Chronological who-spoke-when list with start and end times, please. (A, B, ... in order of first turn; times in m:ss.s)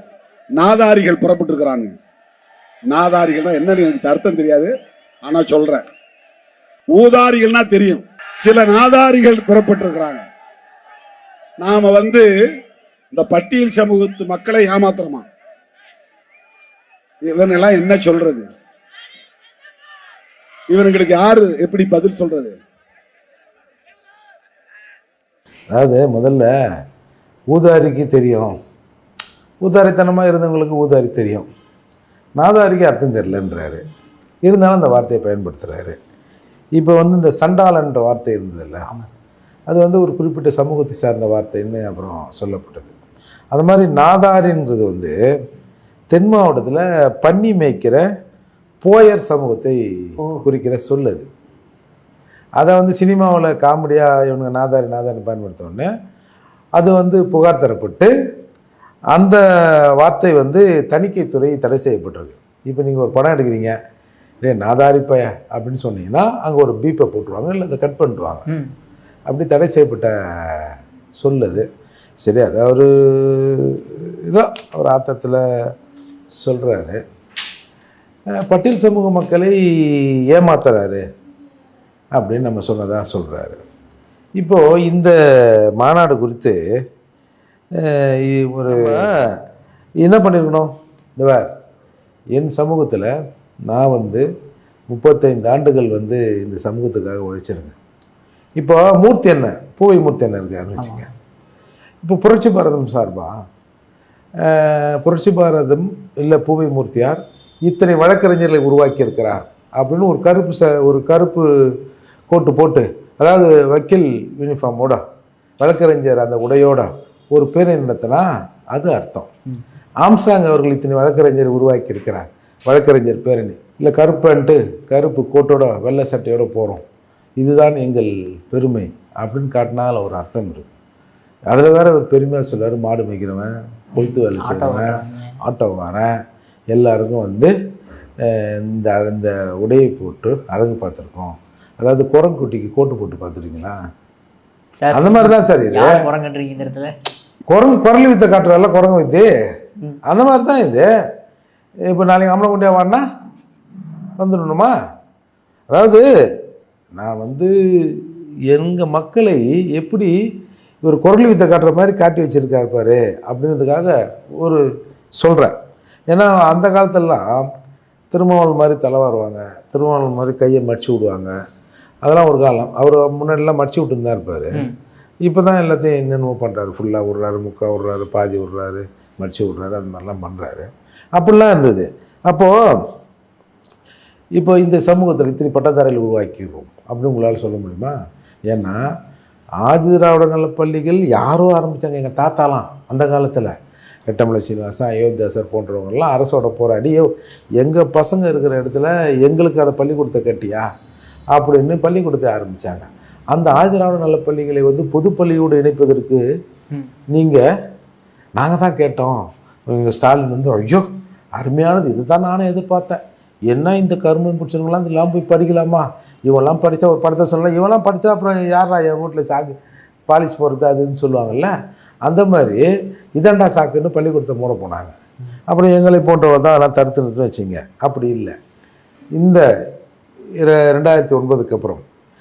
0:00.6-0:02.0 A
0:02.9-0:04.7 A
0:05.2-0:05.9 A
0:06.9-0:10.3 A
0:11.6-0:12.3 A
0:13.1-0:15.3 A
0:17.2-0:18.5 A
0:20.7-0:22.6 A
0:25.7-0:26.5 B
0:27.5-0:28.6 B
0:29.6-0:31.5 B
0:32.4-0:33.8 B
0:34.4-0:36.0 B
0:36.8-0:38.9 B
0:39.7-0:42.9 B
0:43.5-0:45.1 B
0:46.1-0:48.0 B
0:48.8-0:51.3 B
0:52.6-0:55.9 B
0:56.8-0:58.1 B
0:59.1-1:03.8 B
1:04.4-1:08.5 B
1:09.3-1:11.7 B
1:12.2-1:15.7 B
1:16.4-1:17.0 B
1:18.3-1:21.0 B
1:22.2-1:23.6 B
1:24.4-1:26.6 B
1:27.8-1:29.4 B
1:28.8-1:29.0 C
1:30.0-1:31.5 B
1:32.4-1:33.1 B
1:33.7-1:34.3 B
1:34.9-1:37.8 B
1:38.6-1:41.1 B
1:40.8-1:41.1 C
1:42.0-1:43.3 B
1:44.4-1:51.8 B
1:52.3-1:55.0 B
1:55.6-1:59.3 B
2:00.0-2:06.8 B
2:07.4-2:10.7 B
2:11.5-2:16.1 B
2:14.0-2:15.4 C
2:16.7-2:17.5 B
2:18.2-2:23.8 B
2:24.8-2:26.9 C
2:24.9-2:25.9 B
2:27.5-2:29.3 B
2:30.0-2:30.9 B
2:31.9-2:33.0 B
2:34.2-2:34.7 B
2:35.7-2:36.0 B
2:37.0-2:40.1 B
2:40.8-2:44.6 B
2:45.2-2:45.5 B
2:46.1-2:47.5 B
2:48.1-2:51.3 B
2:52.0-2:54.7 B
2:55.3-3:02.8 B
3:04.4-3:08.0 B
3:08.5-3:08.8 B
3:09.6-3:13.5 B
3:14.1-3:20.7 B
3:21.3-3:26.2 B
3:27.1-3:27.4 B
3:28.4-3:39.6 B
3:40.1-3:41.5 B
3:42.1-3:42.7 B
3:43.2-3:45.0 B
3:45.5-3:48.4 B
3:49.2-3:49.4 B
3:50.4-3:51.8 B